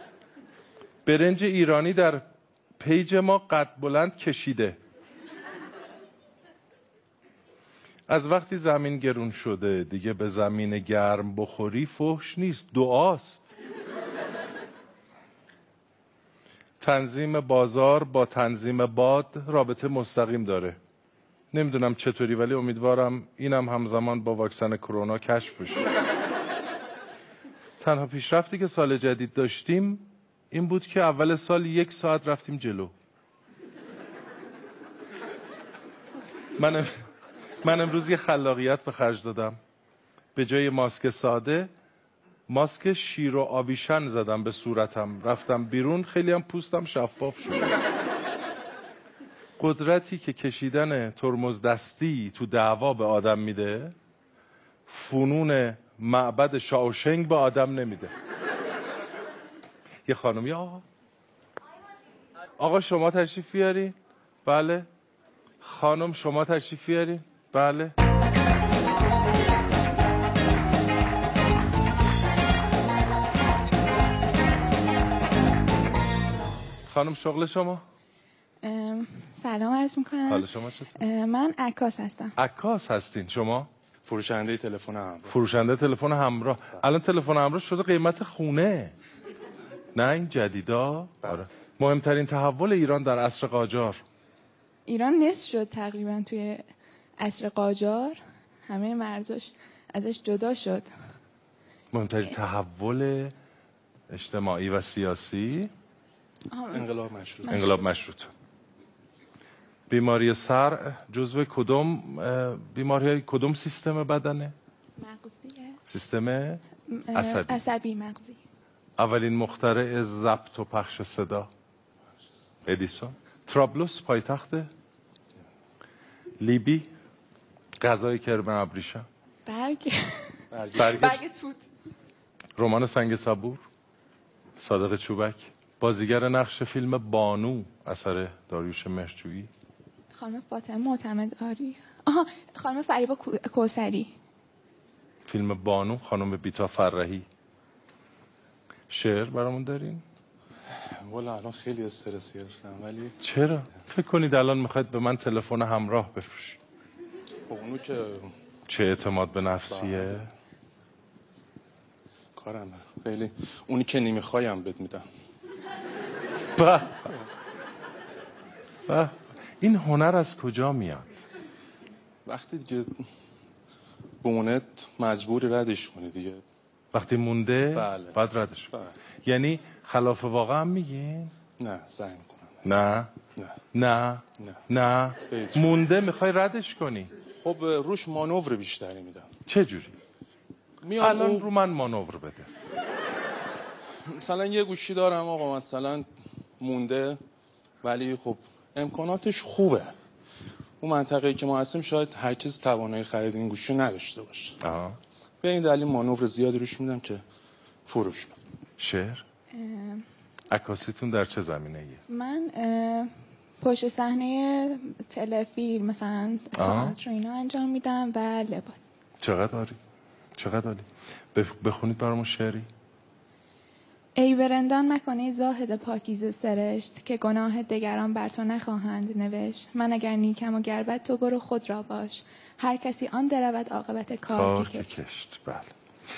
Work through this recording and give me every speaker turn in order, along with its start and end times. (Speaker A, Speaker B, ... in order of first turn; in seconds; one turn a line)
Speaker A: 1.1-2.2
Speaker A: 2.8-4.8
Speaker A: 8.1-13.5
Speaker A: 16.8-20.8
Speaker A: 21.5-25.9
Speaker A: 27.8-32.9
Speaker A: 36.6-37.0
Speaker A: 37.6-39.6
Speaker A: 40.4-41.7
Speaker A: 42.5-47.8
Speaker A: 49.6-54.0
Speaker A: 54.9-58.1
Speaker A: 60.1-60.8
Speaker A: 62.6-64.9
Speaker A: 65.6-67.9
Speaker A: 76.9-77.8
Speaker B: 78.6-82.3
Speaker A: 80.3-81.0
Speaker A: 82.4-83.7
Speaker C: 84.1-85.3
Speaker A: 85.3-88.9
Speaker A: 90.0-94.0
Speaker B: 94.9-96.7
Speaker B: 97.2-100.9
Speaker A: 101.9-103.3
Speaker A: 104.1-105.7
Speaker B: 106.5-106.9
Speaker C: 106.7-107.6
Speaker B: 107.4-107.8
Speaker A: 107.5-108.3
Speaker A: 109.9-114.5
Speaker B: 115.0-115.8
Speaker A: 115.9-116.6
Speaker B: 116.9-118.4
Speaker A: 117.1-117.7
Speaker A: 119.0-121.5
Speaker A: 122.7-124.7
Speaker A: 126.4-126.9
Speaker A: 127.8-129.1
Speaker B: 129.5-131.6
Speaker C: 130.5-131.2
Speaker A: 130.8-131.2
Speaker A: 132.6-133.6
Speaker A: 134.6-139.5
Speaker B: 140.1-144.1
Speaker A: 145.3-147.3
Speaker A: 148.9-150.0
Speaker C: 150.7-153.2
Speaker A: 153.2-156.6
Speaker C: 157.5-158.3
Speaker A: 158.7-160.3
Speaker C: 159.7-160.3
Speaker C: 162.4-165.1
Speaker A: 166.6-167.1
Speaker A: 168.9-171.1
Speaker C: 172.3-173.1
Speaker C: 174.2-176.4
Speaker A: 176.9-178.7
Speaker C: 177.7-178.9
Speaker A: 179.2-181.3
Speaker C: 181.6-182.7
Speaker A: 182.6-183.2
Speaker A: 183.7-187.1
Speaker C: 185.3-185.9
Speaker C: 187.4-189.3
Speaker A: 189.5-190.0
Speaker C: 190.8-191.5
Speaker A: 191.0-192.5
Speaker C: 194.1-196.1
Speaker C: 196.6-197.2
Speaker C: 197.8-200.0
Speaker C: 200.8-204.6
Speaker A: 204.6-205.0
Speaker C: 205.4-207.2
Speaker C: 207.9-208.4
Speaker A: 208.8-209.2
Speaker B: 209.5-210.1
Speaker A: 210.5-212.0
Speaker B: 212.1-218.9
Speaker A: 216.6-217.0
Speaker A: 219.2-219.8
Speaker A: 220.4-222.7
Speaker B: 224.2-235.0
Speaker A: 234.3-235.7